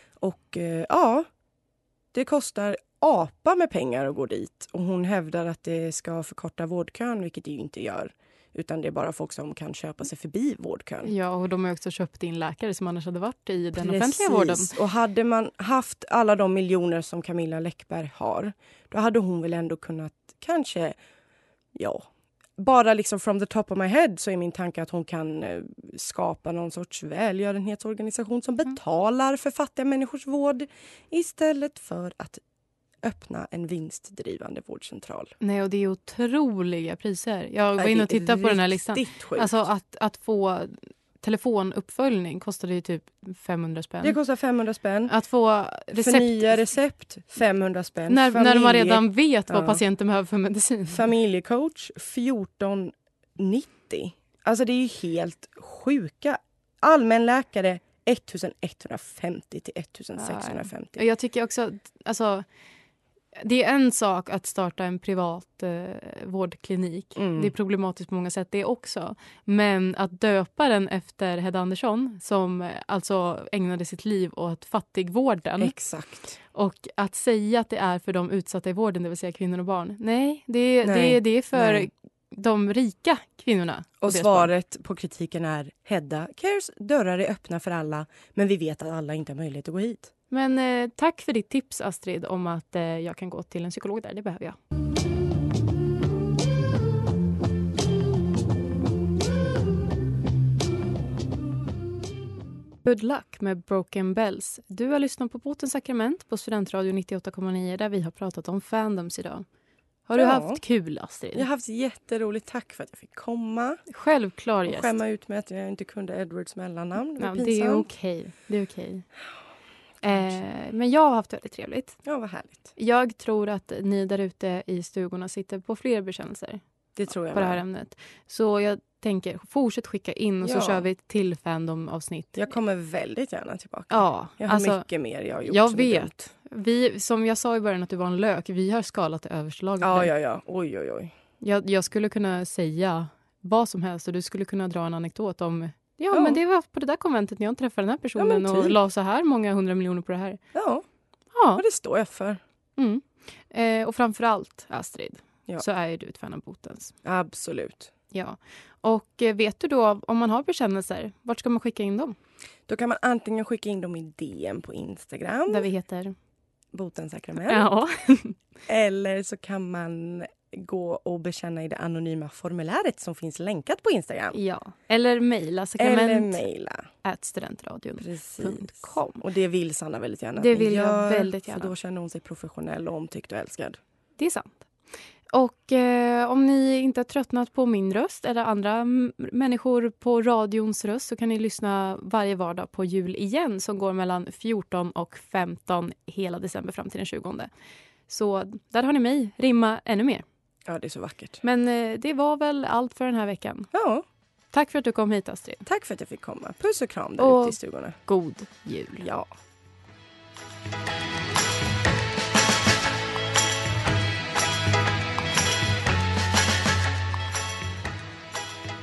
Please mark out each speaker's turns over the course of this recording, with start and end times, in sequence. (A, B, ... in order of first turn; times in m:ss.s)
0:00.2-0:01.3 A
0:02.1-0:11.1 A
0:11.0-0:14.7 B
0:13.8-0:21.0 A
0:21.8-0:22.1 A
0:22.6-0:32.4 A
0:33.0-0:35.3 A
0:35.4-0:44.2 B
0:37.8-0:39.5 A
0:44.0-0:45.1 A
0:45.1-0:46.7 B
0:45.9-0:49.8 A
0:48.1-0:51.0 B
0:50.9-1:01.0 A
1:00.2-1:02.4 B
1:03.4-1:15.7 B
1:07.2-1:07.5 A
1:15.6-1:16.4 A
1:16.5-1:24.5 B
1:20.8-1:21.9 A
1:24.0-1:30.1 A
1:30.3-1:34.6 B
1:42.8-1:49.5 B
1:50.1-1:51.5 B
1:50.1-1:50.6 A
1:51.3-1:53.8 A
1:53.9-1:55.0 B
1:54.7-1:57.9 A
1:57.2-1:59.1 B
2:00.0-2:02.0 B
2:00.1-2:00.4 A
2:02.0-2:02.7 A
2:02.8-2:06.6 B
2:07.0-2:07.6 A
2:07.3-2:12.4 B
2:10.4-2:10.8 A
2:12.4-2:16.2 A
2:13.9-2:14.9 B
2:15.4-2:20.1 B
2:19.8-2:21.1 A
2:21.4-2:30.4 B
2:26.1-2:26.4 A
2:28.2-2:28.8 A
2:30.5-2:30.8 A
2:31.3-2:31.6 B
2:31.6-2:32.4 A
2:32.8-2:37.0 B
2:37.0-2:37.9 A
2:38.1-2:42.2 B
2:42.7-2:45.7 A
2:45.5-2:46.2 B
2:46.7-2:47.7 A
2:47.4-2:48.4 B
2:48.7-2:54.4 A
2:54.3-2:56.4 B
2:55.8-2:56.9 A
2:57.0-2:59.2 B
2:58.0-3:03.8 A
3:00.4-3:01.7 B
3:04.2-3:04.6 B
3:05.3-3:17.5 B
3:18.1-3:20.2 B
3:20.7-3:21.4 A
3:21.4-3:23.7 B
3:23.7-3:24.0 A
3:24.5-3:25.6 B
3:25.6-3:28.0 A
3:27.2-3:29.1 B
3:29.0-3:29.3 A